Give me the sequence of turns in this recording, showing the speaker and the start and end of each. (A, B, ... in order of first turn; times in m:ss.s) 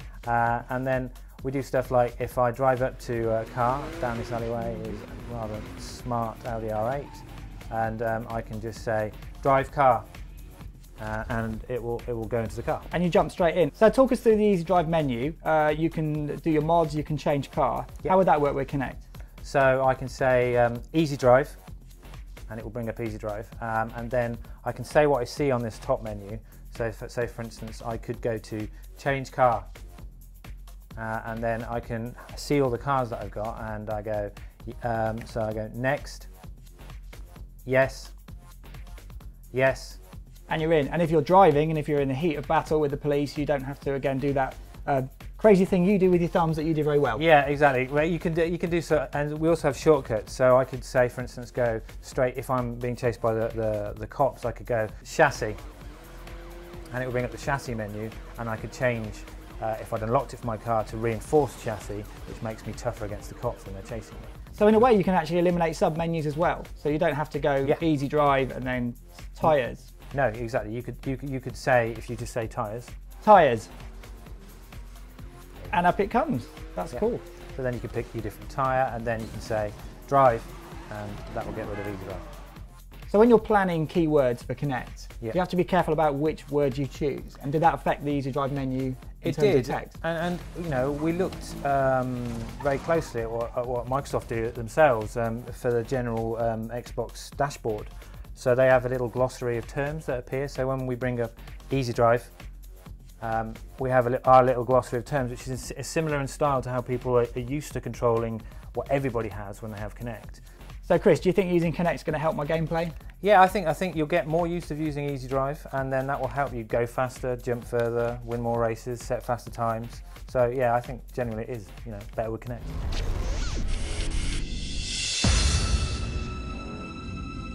0:00.2-0:10.1 A
0:11.0-0:12.9 A
0:12.9-0:19.0 B
0:19.4-0:21.6 A
0:22.5-0:29.7 A
0:31.0-0:36.3 A
0:37.6-0:38.1 A
0:39.5-0:40.0 A
0:40.5-0:47.2 B
0:47.1-0:55.6 A
0:56.9-1:04.3 A
1:04.6-1:09.9 B
1:10.1-1:12.9 A
1:13.2-1:13.7 B
1:15.7-1:17.2 B
1:16.9-1:22.2 A
1:23.1-1:29.9 B
1:29.2-1:42.3 A
1:43.2-1:50.4 A
1:50.8-1:53.0 B
1:53.2-2:02.7 A